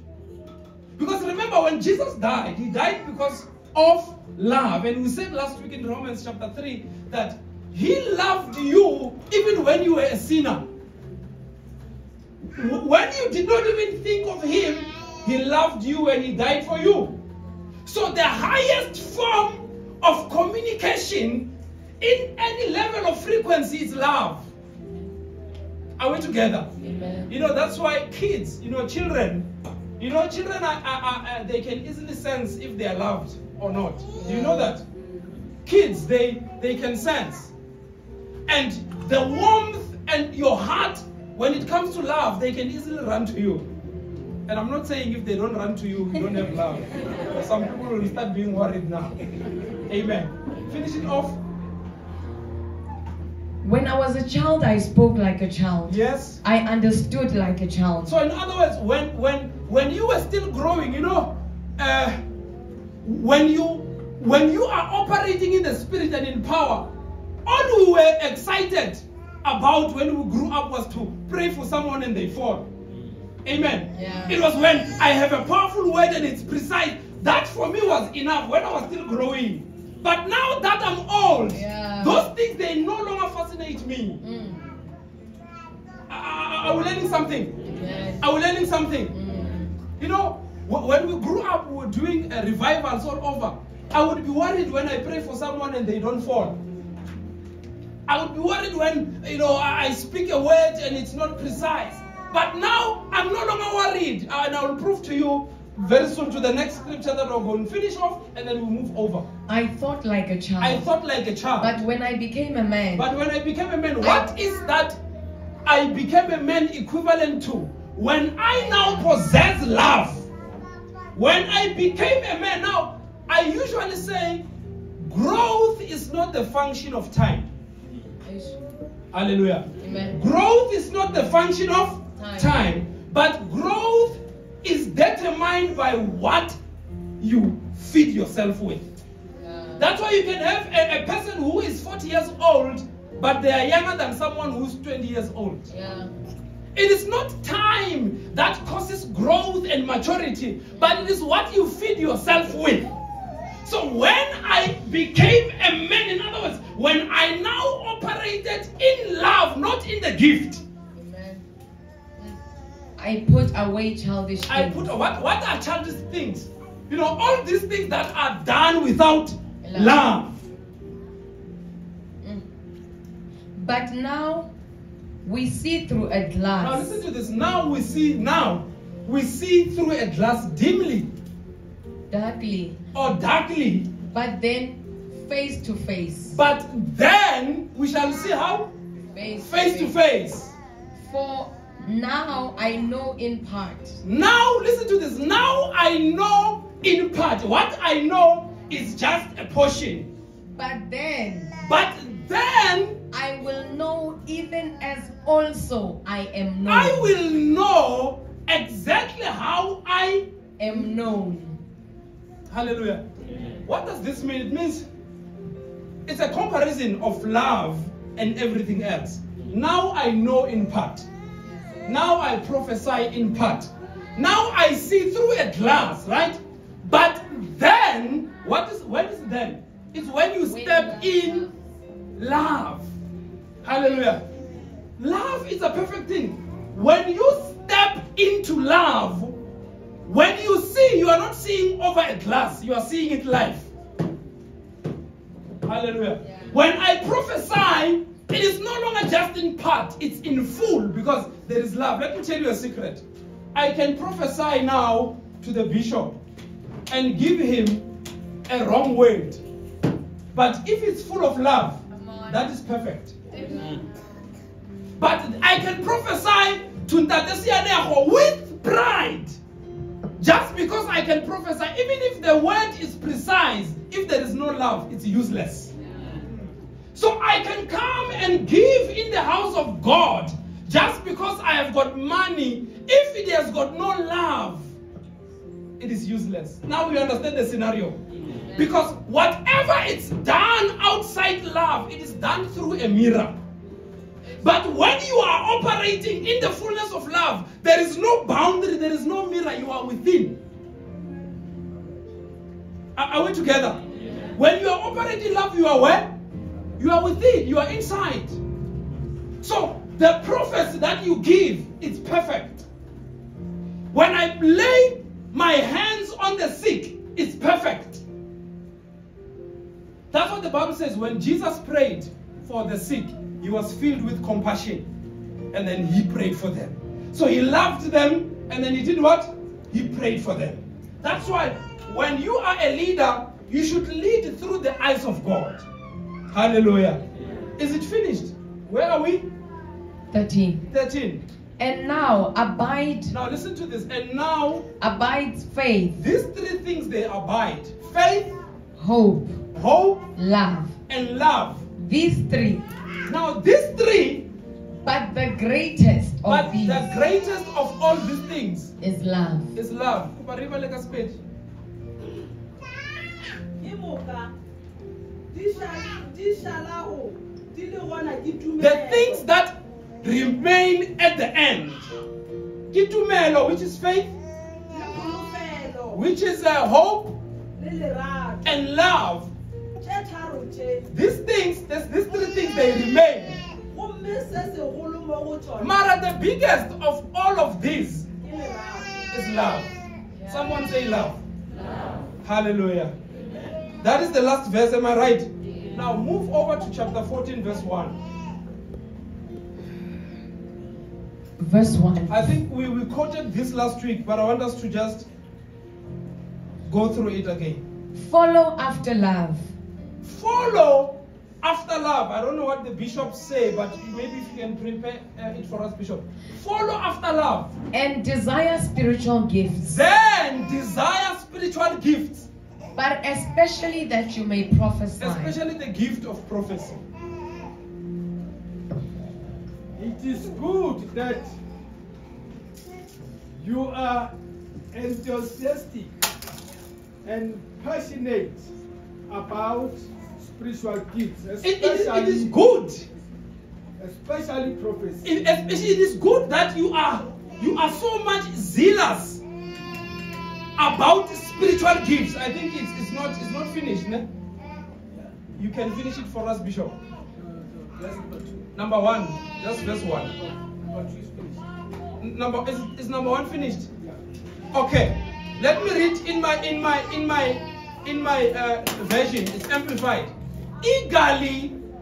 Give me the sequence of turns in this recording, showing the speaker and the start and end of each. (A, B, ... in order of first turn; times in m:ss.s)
0:01.0-0:10.7 A
0:12.5-0:17.2 A
0:17.8-0:24.5 A
0:26.0-0:26.7 A
0:26.8-0:27.3 B
0:27.3-0:29.5 A
0:30.0-0:34.8 A
0:34.2-0:34.7 B
0:35.6-0:37.5 A
0:38.4-0:43.7 A
0:44.5-0:49.2 A
0:49.9-0:51.4 A
0:53.6-0:58.2 B
0:55.9-0:56.4 A
0:58.0-1:02.2 A
1:03.0-1:06.9 A
1:07.4-1:12.7 A
1:13.4-1:24.2 A
1:13.9-1:14.4 B
1:21.5-1:22.3 B
1:24.2-1:24.7 B
1:26.1-1:27.7 A
1:27.6-1:28.3 B
1:28.2-1:29.1 A
1:29.1-1:29.7 B
1:30.0-1:36.6 A
1:38.1-1:49.2 A
1:49.5-1:50.9 B
1:50.6-1:51.8 A
1:51.6-1:53.1 B
1:52.9-1:55.0 A
1:54.0-1:54.3 B
1:55.6-2:00.3 A
2:01.1-2:04.4 A
2:05.0-2:07.5 A
2:08.2-2:08.6 B
2:09.1-2:16.6 A
2:09.8-2:10.2 B
2:12.2-2:12.6 B
2:17.2-2:18.8 A
2:19.4-2:19.9 B
2:19.8-2:25.7 A
2:25.7-2:26.1 B
2:26.7-2:32.9 A
2:30.7-2:31.1 B
2:33.6-2:40.6 A
2:41.0-2:41.4 B
2:43.0-2:44.9 B
2:44.5-2:50.4 A
2:49.6-2:50.0 B
2:53.5-2:54.5 B
2:55.2-2:57.0 B
2:56.6-3:01.1 A
3:02.1-3:02.8 B
3:02.9-3:03.9 A
3:04.1-3:06.4 B
3:06.3-3:08.7 A
3:09.1-3:09.9 B
3:09.4-3:10.5 A
3:11.0-3:14.0 B
3:14.0-3:20.1 A
3:20.5-3:21.6 B
3:21.6-3:23.0 A
3:23.1-3:27.2 B
3:26.6-3:30.8 A
3:30.6-3:31.6 B
3:32.5-3:33.0 A
3:33.6-3:34.8 A
3:36.0-3:41.1 A
3:41.8-3:51.4 A
3:50.4-3:51.5 B
3:52.2-3:52.9 A
3:53.6-3:54.2 A
3:55.0-3:59.4 A
4:00.0-4:03.7 A
4:05.6-4:16.2 A
4:06.2-4:06.5 B
4:16.9-4:17.9 A
4:18.5-4:19.4 A
4:20.3-4:23.2 A
4:21.9-4:22.5 B
4:23.3-4:23.8 B
4:25.0-4:29.4 A
4:30.2-4:35.7 A
4:36.9-4:44.7 A
4:45.8-4:48.0 A
4:48.4-4:48.7 B
4:48.5-4:53.4 A
4:54.4-5:00.4 A
5:02.9-5:03.8 A
5:04.3-5:06.1 A
5:06.8-5:08.4 A
5:09.4-5:12.6 A
5:13.9-5:18.0 A
5:20.1-5:24.9 A
5:25.5-5:35.6 A
5:36.3-5:37.0 A
5:37.6-5:39.3 A
5:40.1-5:40.6 B
5:40.7-5:41.2 A
5:41.6-5:43.2 B
5:43.1-5:44.7 A
5:44.8-5:46.0 B
5:46.0-5:48.4 A
5:48.8-5:49.4 B
5:49.5-5:50.0 A
5:50.2-5:50.7 B
5:50.9-5:51.6 A
5:51.8-5:52.6 B
5:53.1-5:54.3 A
5:54.8-5:56.9 B
5:56.2-5:58.7 A
5:58.8-5:59.5 B
5:59.5-6:01.2 A
6:03.6-6:04.3 C
6:05.3-6:09.2 C
6:08.6-6:11.9 A
6:12.7-6:14.1 A
6:14.7-6:16.0 C
6:15.9-6:17.2 A
6:17.5-6:18.6 C
6:18.4-6:19.3 A
6:19.8-6:20.9 C
6:20.9-6:23.4 A
6:23.7-6:25.8 C
6:25.6-6:28.1 A
6:28.2-6:29.1 C
6:29.1-6:31.2 A
6:30.2-6:30.4 B
6:32.2-6:32.9 A
6:33.8-6:38.0 A
6:41.4-6:42.3 B
6:42.1-6:45.1 A
6:46.6-6:47.6 A
6:47.9-6:49.5 B
6:50.0-6:57.5 A
6:57.7-6:59.7 B
6:59.6-7:02.3 A
7:02.7-7:05.3 B
7:05.0-7:06.8 A
7:09.8-7:11.3 D
7:13.4-7:14.1 D
7:14.7-7:15.9 D
7:17.0-7:18.5 D
7:19.1-7:22.3 D
7:21.4-7:22.8 A
7:23.8-7:25.0 D
7:25.0-7:29.2 A
7:30.6-7:34.1 A
7:35.4-7:36.8 A
7:37.7-7:38.5 D
7:38.5-7:40.1 A
7:40.5-7:41.5 D
7:42.0-7:43.7 A
7:44.5-7:51.6 A